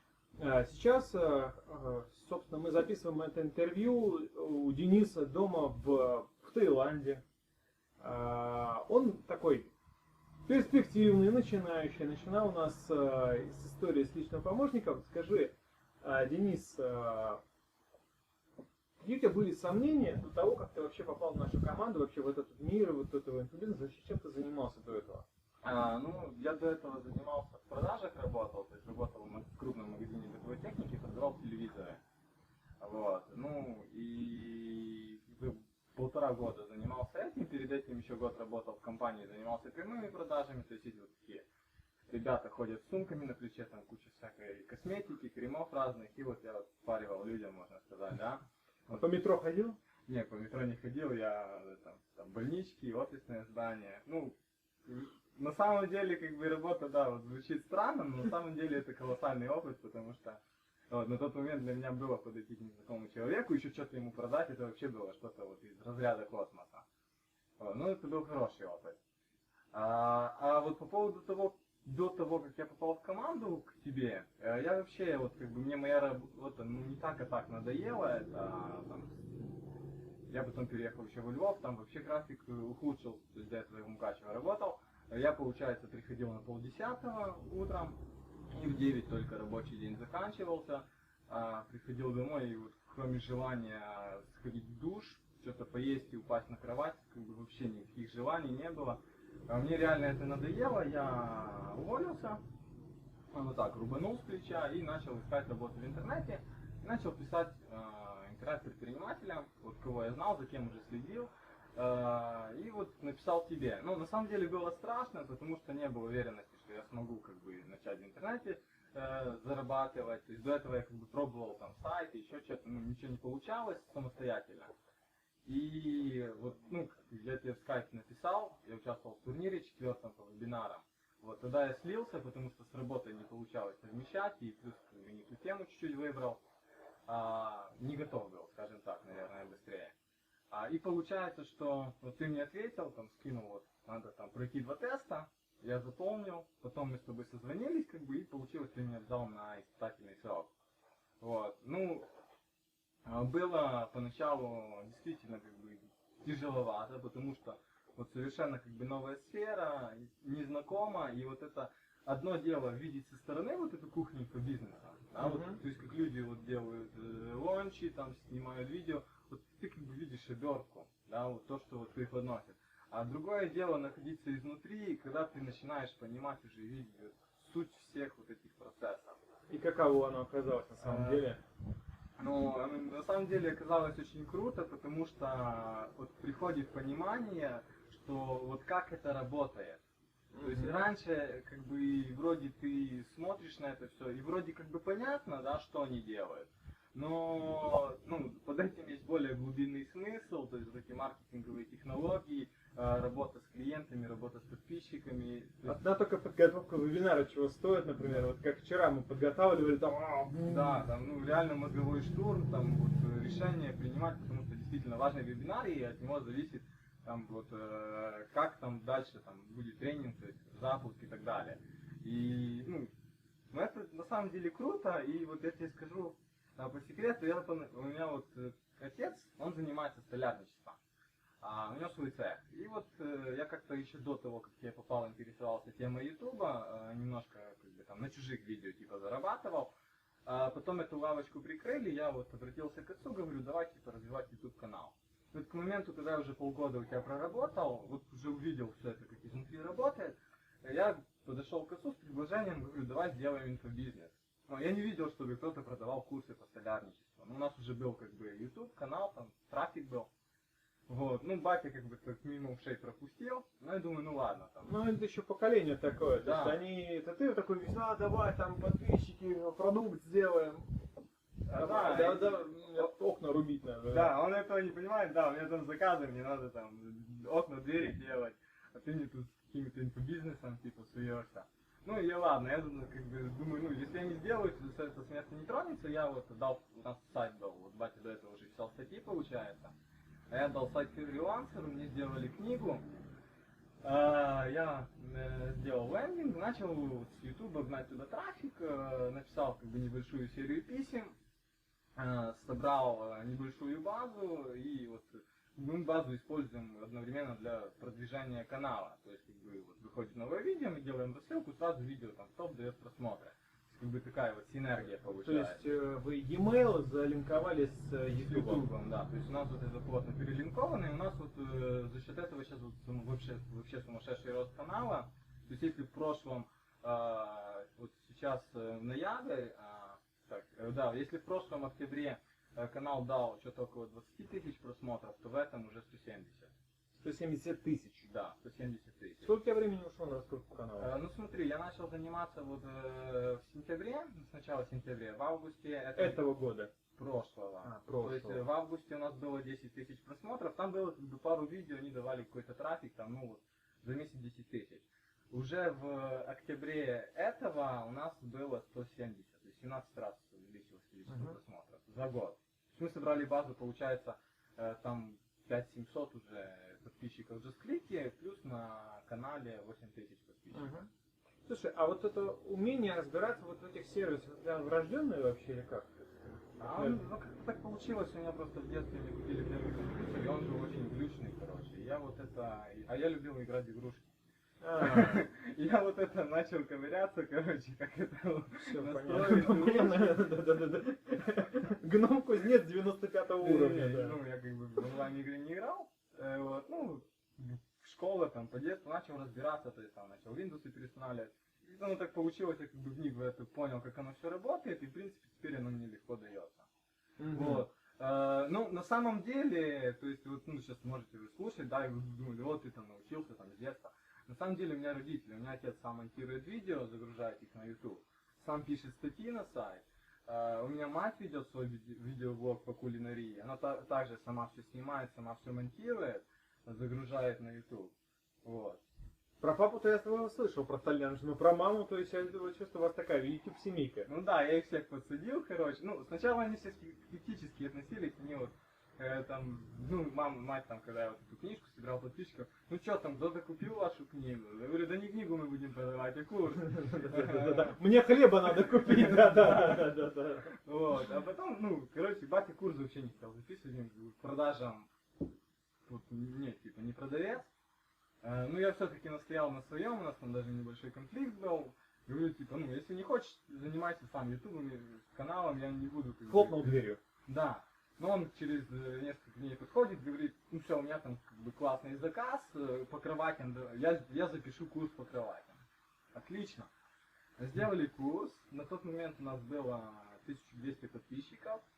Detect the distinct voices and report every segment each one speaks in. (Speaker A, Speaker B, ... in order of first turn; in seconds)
Speaker A: 0.4-7.2, 8.0-9.7, 10.5-17.4, 19.0-25.2, 48.9-49.8, 165.2-165.6, 179.5-181.4, 190.3-190.9, 205.7-210.8, 264.6-270.8, 271.5-274.1, 314.8-318.7, 337.0-338.1, 339.2-340.9, 345.9-346.7, 347.6-348.4, 361.1-361.4, 370.5-370.9, 371.5-377.0, 384.6-385.2, 388.6-394.2, 407.2-407.6, 429.4-434.1, 446.6-450.5, 466.3-467.0
Speaker B: 25.6-32.0, 32.8-41.5, 42.1-49.1, 50.1-66.8, 67.6-69.0, 69.7-79.5, 80.3-88.0, 88.5-102.4, 103.3-124.7, 125.5-136.4, 137.1-139.9, 140.5-150.5, 151.2-152.1, 153.0-179.2, 180.8-181.3, 182.2-189.8, 190.4-205.8, 208.0-208.2, 210.4-222.9, 223.5-230.8, 231.4-239.7, 240.2-260.1, 260.9-264.7, 266.2-266.6, 271.4-272.9, 273.9-289.7, 290.3-292.9, 293.8-301.1, 301.9-315.6, 318.1-336.5, 338.0-339.3, 340.8-346.2, 346.9-370.9, 376.6-384.1, 384.8-390.3, 393.4-406.7, 407.3-428.8, 434.1-447.8, 448.6-454.9, 455.9-457.5, 458.2-466.7, 467.3-476.7, 477.4-481.6